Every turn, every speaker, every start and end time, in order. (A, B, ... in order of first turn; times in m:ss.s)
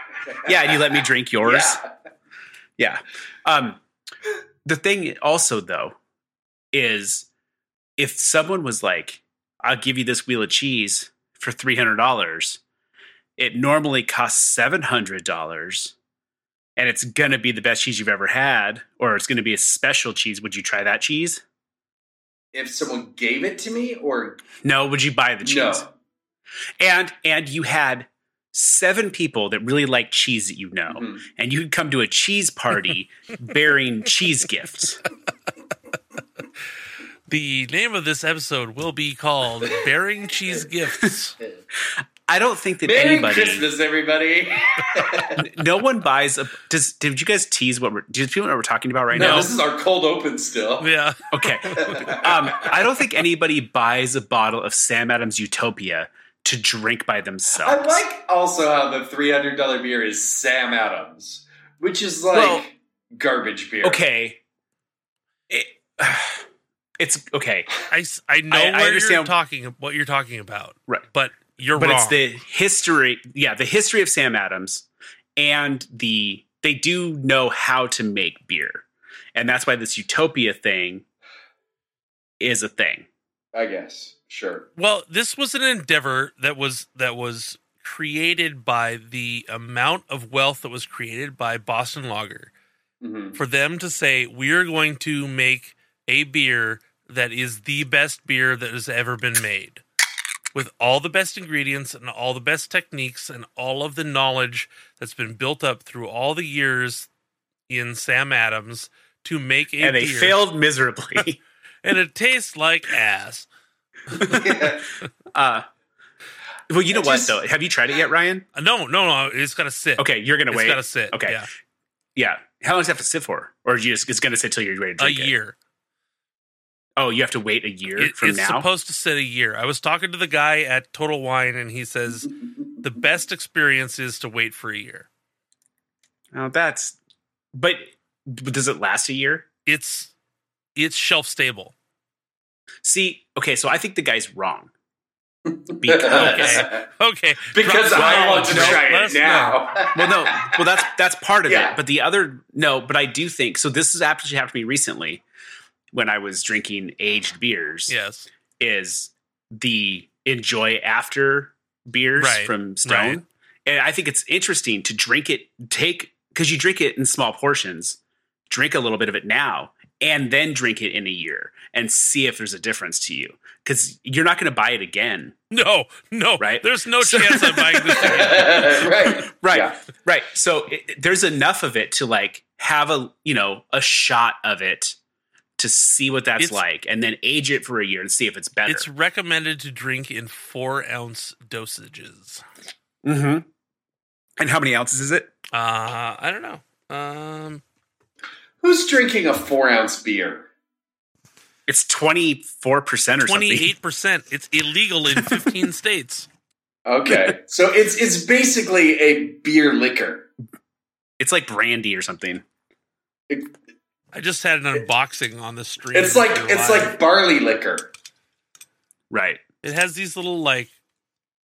0:00.2-0:00.8 A
0:00.4-0:01.8 B
0:01.4-0:01.9 A
0:02.8-0:03.8 B
0:04.6-0:06.0 B
0:06.7-0:07.3 B
0:08.0-0:12.6 B
0:13.4-0:15.9 B
0:16.8-0:21.4 B
0:22.5-0:24.4 A
0:24.6-0:25.9 B
0:25.4-0:25.9 A
0:26.8-0:35.0 B
0:30.9-0:31.2 A
0:37.3-0:41.4 C
0:42.2-0:43.6 B
0:42.8-0:45.4 A
0:45.4-0:49.5 B
0:49.1-0:50.9 A
0:50.8-0:52.2 C
0:51.3-0:58.0 B
0:51.8-0:52.6 A
0:57.6-1:04.0 A
1:02.3-1:02.6 B
1:03.8-1:04.4 B
1:05.5-1:06.4 B
1:07.0-1:07.7 B
1:07.9-1:12.2 C
1:08.5-1:09.3 B
1:11.7-1:14.8 B
1:15.4-1:21.0 B
1:22.4-1:23.1 B
1:23.5-1:24.7 A
1:24.8-1:32.5 C
1:33.0-1:33.4 A
1:33.4-1:39.8 C
1:40.5-1:47.1 C
1:47.7-1:50.4 C
1:49.8-1:51.4 B
1:51.8-1:53.5 C
1:54.1-1:54.7 B
1:54.3-1:54.8 A
1:55.3-1:55.6 B
1:56.7-1:58.4 B
1:56.9-1:57.4 A
1:58.5-2:01.5 C
2:00.0-2:01.4 B
2:02.2-2:05.3 B
2:05.0-2:05.5 C
2:07.0-2:08.7 B
2:08.0-2:15.1 C
2:16.3-2:17.0 B
2:17.5-2:19.5 B
2:19.6-2:20.1 C
2:20.8-2:21.7 C
2:22.8-2:24.7 B
2:25.5-2:26.8 A
2:25.8-2:26.7 B
2:26.1-2:29.6 C
2:27.5-2:30.6 A
2:27.9-2:28.8 B
2:29.9-2:35.2 B
2:31.5-2:31.8 A
2:35.9-2:38.0 B
2:37.9-2:38.3 C
2:38.6-2:55.4 B
2:42.2-2:43.2 C
2:55.5-2:58.7 C
2:56.4-3:05.0 B
2:58.1-2:59.8 A
3:05.6-3:08.9 B
3:08.6-3:12.4 C
3:13.0-3:13.4 B
3:14.4-3:15.3 B
3:15.5-3:17.6 C
3:18.6-3:20.5 A
3:21.7-3:23.7 B
3:23.2-3:26.3 C
3:26.8-3:30.3 A
3:31.2-3:32.4 B
3:34.1-3:37.0 C
3:35.9-3:37.9 A
3:39.1-3:39.4 B
3:39.6-3:40.7 C